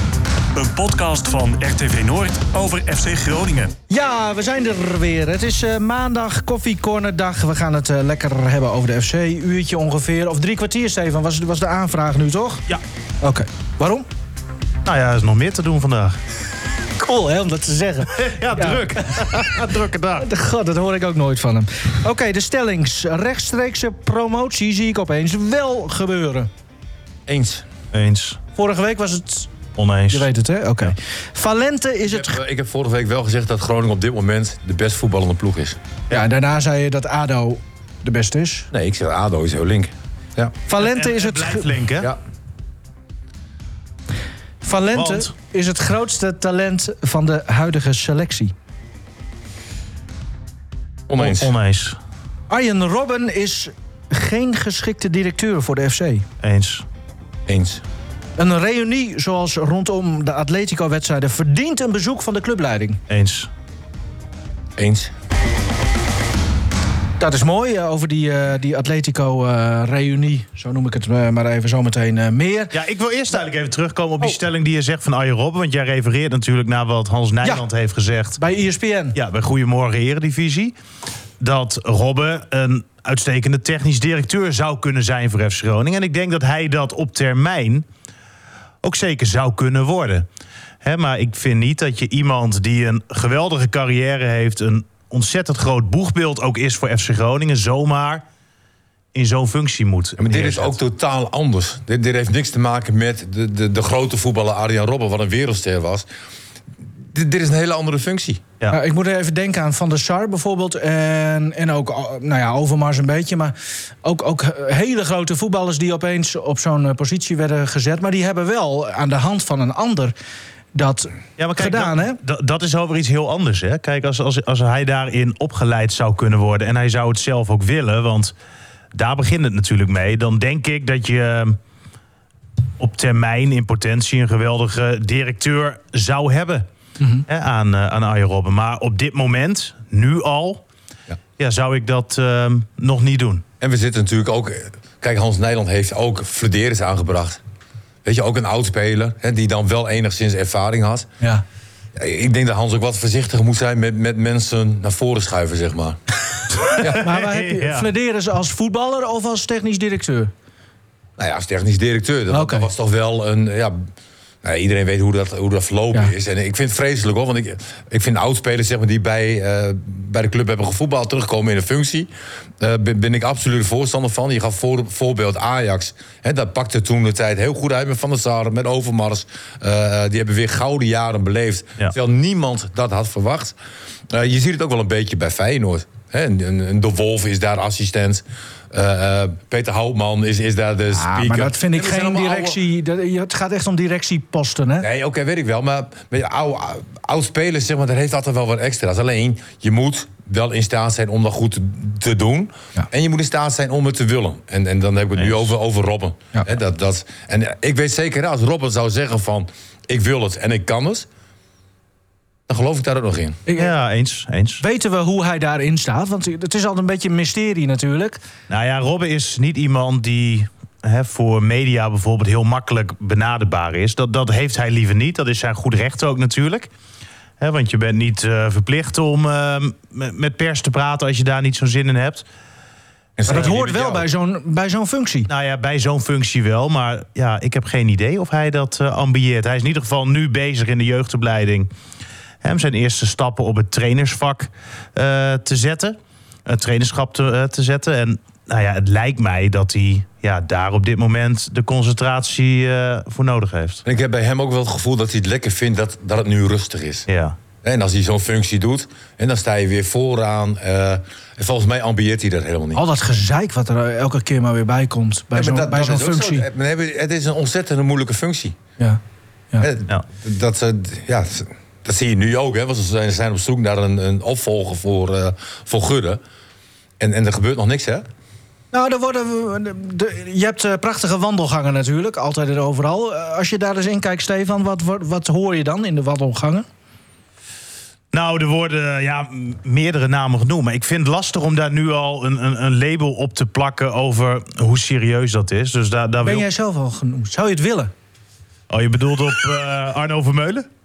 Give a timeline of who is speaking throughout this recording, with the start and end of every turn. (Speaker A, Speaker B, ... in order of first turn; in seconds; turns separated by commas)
Speaker A: 0.5-3.8, Speaker B: 3.9-12.7, Speaker B: 13.2-14.1, Speaker C: 14.8-16.2, Speaker B: 17.0-26.5, Speaker C: 18.1-20.3, Speaker D: 27.3-27.6, Speaker C: 27.9-28.4, Speaker B: 28.6-29.5, Speaker C: 29.8-30.3, Speaker B: 30.1-32.4, Speaker D: 32.1-35.8, Speaker B: 36.1-38.7, Speaker D: 38.7-40.6, Speaker B: 40.7-41.7, Speaker C: 40.8-42.1, Speaker B: 44.6-48.5, Speaker C: 45.0-45.3, Speaker D: 51.1-51.5, Speaker C: 51.2-52.0, Speaker B: 52.5-56.3, Speaker C: 56.4-56.9, Speaker D: 57.5-57.8, Speaker B: 58.4-63.0, Speaker C: 63.1-63.5, Speaker D: 64.8-65.1, Speaker B: 67.2-72.8, Speaker C: 72.7-78.4, Speaker B: 78.4-79.2, Speaker C: 79.2-80.8, Speaker C: 81.4-87.9, Speaker C: 88.8-90.3, Speaker C: 90.8-98.2, Speaker C: 99.1-100.8, Speaker D: 100.2-106.1, Speaker D: 107.1-108.4, Speaker B: 108.7-120.1, Speaker B: 120.8-122.2, Speaker C: 121.4-128.3, Speaker C: 128.9-131.6, Speaker C: 132.8-136.7, Speaker B: 137.0-137.3, Speaker C: 137.3-140.6, Speaker C: 141.4-143.4, Speaker D: 143.6-147.4, Speaker D: 148.1-151.1, Speaker D: 151.9-156.0, Speaker B: 156.8-160.3, Speaker D: 156.8-157.0, Speaker C: 156.8-157.9, Speaker D: 161.2-163.8, Speaker B: 162.3-162.7, Speaker D: 164.4-183.6, Speaker D: 184.1-192.6, Speaker B: 190.9-194.9, Speaker D: 194.8-211.1, Speaker C: 205.2-205.5, Speaker D: 212.5-213.4, Speaker B: 213.5-213.7, Speaker C: 213.6-214.6, Speaker B: 214.6-218.2, Speaker C: 218.5-226.7, Speaker C: 227.4-232.3, Speaker D: 233.2-234.0, Speaker B: 233.3-235.3, Speaker C: 233.3-233.6, Speaker C: 235.3-241.7, Speaker C: 242.4-253.8, Speaker D: 253.8-257.1, Speaker C: 257.1-257.4, Speaker D: 257.6-262.8, Speaker B: 262.7-266.5, Speaker D: 265.3-268.6, Speaker D: 269.6-276.2, Speaker D: 277.0-278.1, Speaker B: 278.7-286.7, Speaker C: 288.1-296.5, Speaker B: 296.2-297.9, Speaker C: 298.7-300.7